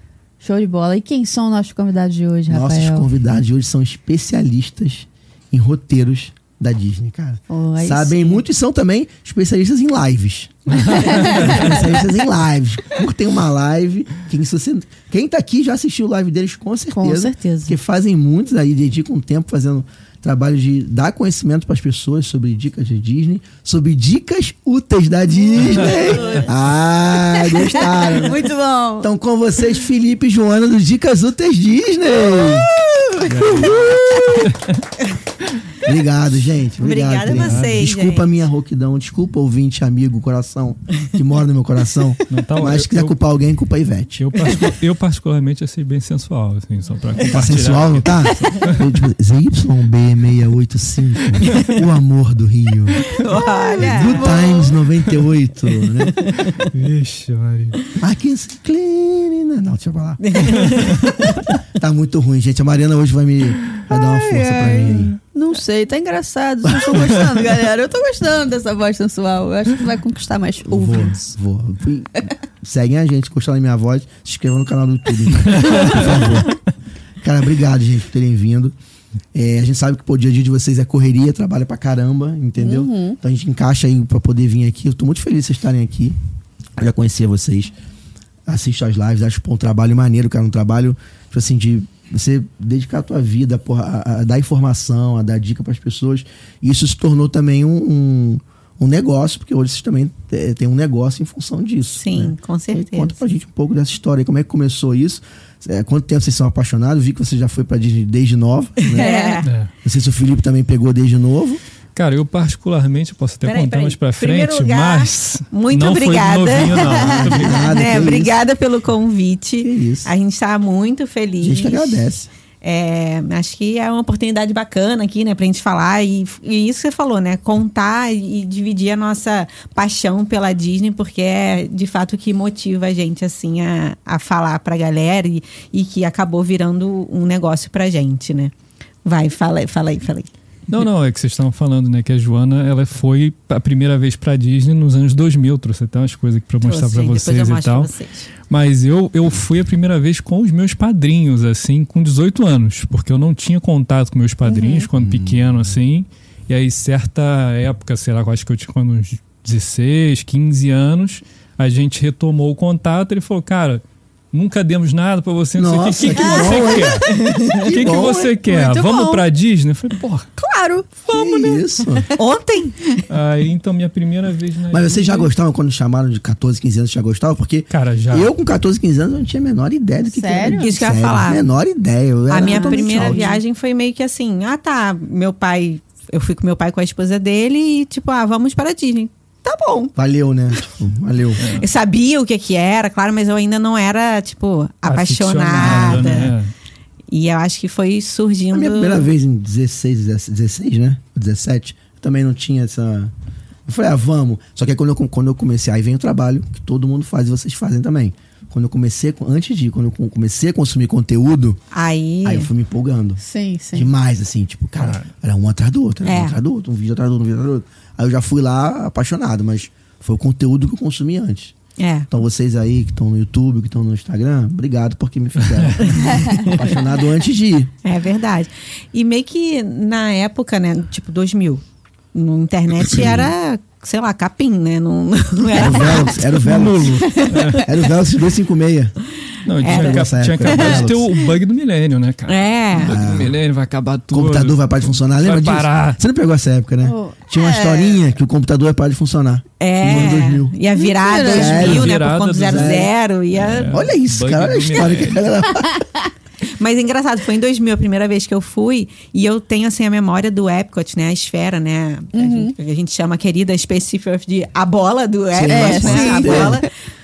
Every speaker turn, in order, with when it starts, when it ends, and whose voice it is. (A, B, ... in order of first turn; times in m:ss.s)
0:00.4-0:03.1 A
0:02.5-0:28.5 B
0:07.5-0:08.4 A
0:10.7-0:11.7 C
0:10.7-0:12.0 A
0:16.9-0:17.8 A
0:25.6-0:26.5 A
0:27.3-0:29.1 A
0:29.0-0:32.7 B
0:33.2-0:33.9 C
0:33.3-0:34.5 B
0:34.4-0:34.8 C
0:35.8-0:44.4 B
0:36.8-0:38.2 D
0:37.3-0:37.8 C
0:42.3-0:43.2 C
0:44.2-0:48.8 C
0:47.2-0:53.2 B
0:53.0-0:54.7 D
0:53.5-0:54.7 A
0:53.8-0:56.3 B
0:56.1-0:56.5 D
0:56.6-0:57.8 C
0:58.0-1:00.8 B
1:00.2-1:01.4 D
1:01.8-1:05.2 B
1:03.9-1:11.3 A
1:06.6-1:07.2 B
1:10.6-1:16.6 B
1:15.4-1:16.2 C
1:17.2-1:18.8 B
1:19.3-1:26.2 B
1:22.6-1:23.2 A
1:26.8-1:27.7 B
1:28.5-1:49.1 B
1:42.0-1:43.2 D
1:48.8-1:49.5 D
1:49.0-1:49.4 A
1:49.4-1:49.7 C
1:49.8-1:51.6 B
1:51.9-1:58.1 C
1:53.4-2:02.0 D
1:56.8-1:57.6 A
1:57.2-1:58.4 B
1:59.6-2:00.1 B
2:01.4-2:02.3 B
2:02.6-2:18.5 D
2:19.0-2:20.3 D
2:20.7-2:27.9 C
2:26.6-2:28.3 D
2:28.5-2:50.3 C
2:34.4-2:34.9 A
2:35.0-2:35.6 B
2:45.6-2:48.4 B
2:46.1-2:46.9 A
2:47.1-2:47.6 D
2:48.4-2:49.2 A
2:50.4-2:51.6 A
2:51.1-2:52.1 B
2:52.1-2:53.1 D
2:53.1-2:55.3 C
2:54.7-3:03.2 B
2:57.7-2:58.3 C
3:00.1-3:00.7 A
3:00.4-3:01.4 D
3:02.3-3:09.9 D
3:02.4-3:03.4 A
3:10.0-3:11.5 B
3:11.4-3:11.7 C
3:11.5-3:16.3 D
3:14.8-3:16.5 C
3:15.6-3:16.3 B
3:17.1-3:19.1 D
3:18.5-3:23.1 B
3:23.7-3:31.6 B
3:31.7-3:32.5 D
3:32.2-3:33.2 B
3:33.2-3:33.9 A
3:33.7-3:41.6 B
3:34.8-3:35.1 C
3:36.0-3:36.4 D
3:41.8-3:42.1 D
3:42.1-3:47.7 B
3:45.8-3:46.8 D
3:47.8-3:57.6 D
3:52.8-3:53.3 B
3:55.6-3:58.9 B
3:55.6-3:56.2 A
3:56.4-3:57.6 C
3:57.0-3:57.2 A
3:59.4-4:06.0 C
3:59.6-4:00.0 D
3:59.6-4:01.1 B
4:02.2-4:03.0 D
4:02.8-4:03.4 B
4:04.1-4:10.6 B
4:06.8-4:08.0 A
4:09.6-4:13.8 D
4:09.8-4:10.3 C
4:10.7-4:11.8 A
4:11.2-4:12.9 B
4:11.5-4:15.3 C
4:13.7-4:15.8 B
4:16.5-4:26.7 D
4:22.1-4:22.6 A
4:25.3-4:26.6 B
4:25.4-4:26.6 A